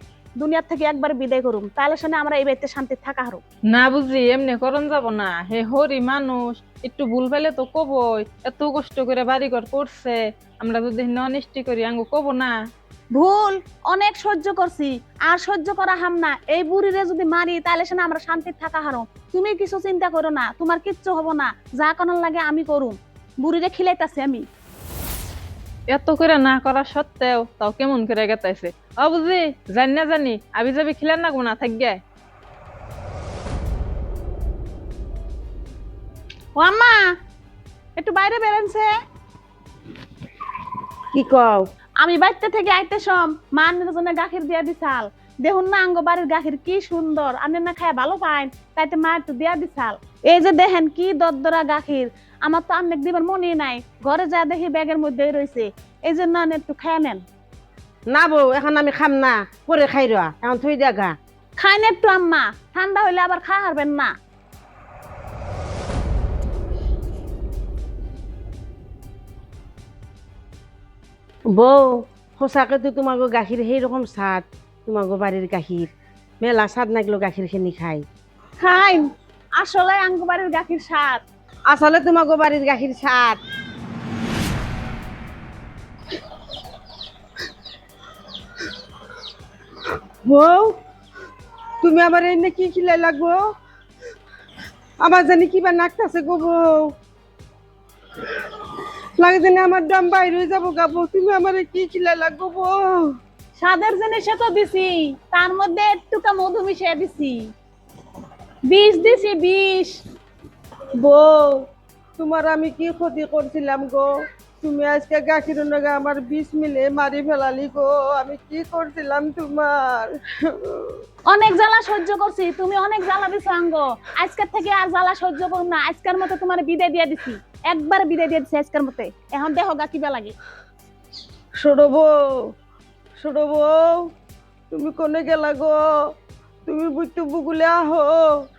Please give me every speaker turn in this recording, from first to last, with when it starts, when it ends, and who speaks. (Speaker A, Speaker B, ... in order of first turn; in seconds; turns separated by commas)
Speaker A: 0.4-3.4, Speaker B: 3.7-12.5, Speaker A: 13.1-24.4, Speaker B: 25.9-32.0, Speaker A: 36.5-37.0, Speaker A: 38.0-38.9, Speaker C: 41.1-41.6, Speaker A: 42.0-57.2, Speaker C: 58.1-61.1, Speaker A: 61.6-64.1, Speaker C: 71.5-75.9, Speaker C: 76.4-78.0, Speaker A: 78.6-79.0, Speaker A: 79.6-81.2, Speaker C: 81.7-83.4, Speaker C: 90.2-90.7, Speaker C: 91.8-93.4, Speaker C: 95.0-96.9, Speaker C: 99.2-103.1, Speaker A: 103.6-107.5, Speaker A: 108.7-110.0, Speaker C: 111.0-111.6, Speaker C: 112.2-114.1, Speaker C: 114.6-121.0, Speaker A: 121.3-130.3, Speaker C: 131.6-132.5, Speaker C: 133.2-134.1, Speaker C: 134.7-135.9, Speaker C: 136.7-138.3